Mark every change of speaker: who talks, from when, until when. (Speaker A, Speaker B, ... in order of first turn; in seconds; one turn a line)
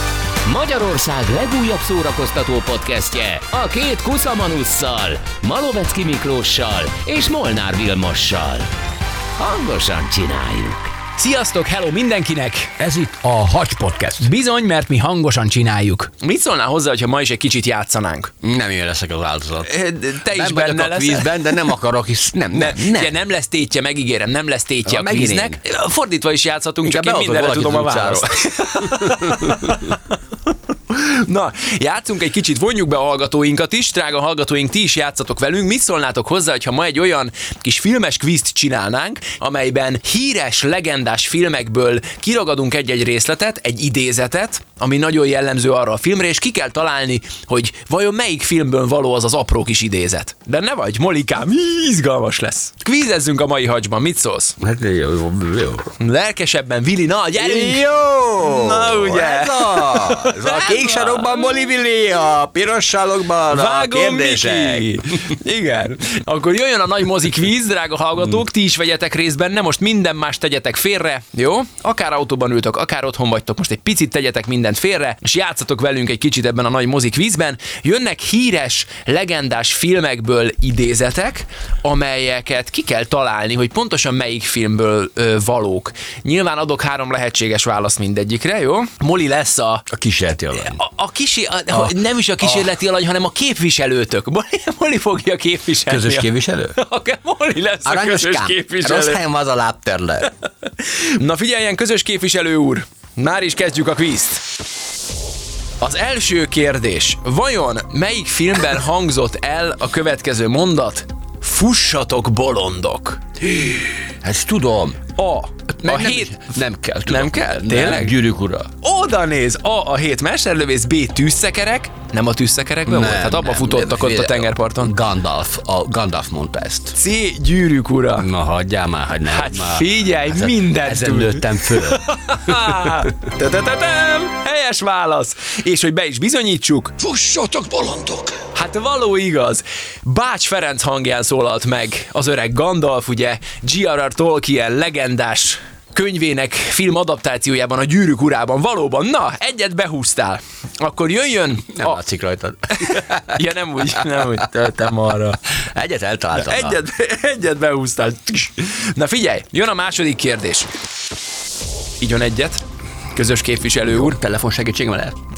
Speaker A: 0.4-8.7
Speaker A: 9.3-10.9
Speaker B: 11.2-12.7
Speaker C: 12.8-14.3
Speaker B: 14.2-18.3
Speaker C: 18.4-19.7
Speaker B: 19.7-21.3
Speaker C: 20.2-23.1
Speaker B: 22.5-30.0
Speaker C: 24.8-25.6
Speaker C: 26.8-29.7
Speaker B: 30.9-54.6
Speaker C: 54.6-55.9
Speaker B: 56.0-61.5
Speaker C: 57.4-65.0
Speaker B: 63.5-89.9
Speaker C: 89.9-90.8
Speaker B: 90.6-99.2
Speaker C: 91.7-92.7
Speaker C: 95.9-96.8
Speaker C: 97.9-100.3
Speaker B: 100.8-104.4
Speaker B: 105.8-113.2
Speaker C: 113.4-115.0
Speaker B: 115.2-116.5
Speaker C: 115.8-118.7
Speaker B: 117.0-118.1
Speaker B: 118.8-124.9
Speaker C: 122.9-127.0
Speaker B: 127.0-128.3
Speaker C: 128.2-132.5
Speaker B: 129.3-137.0
Speaker C: 137.0-138.3
Speaker B: 138.5-152.0
Speaker C: 151.7-153.4
Speaker B: 152.8-155.4
Speaker C: 154.0-154.8
Speaker C: 155.6-156.8
Speaker B: 156.3-160.7
Speaker B: 162.0-162.6
Speaker B: 163.1-164.2
Speaker C: 163.9-165.2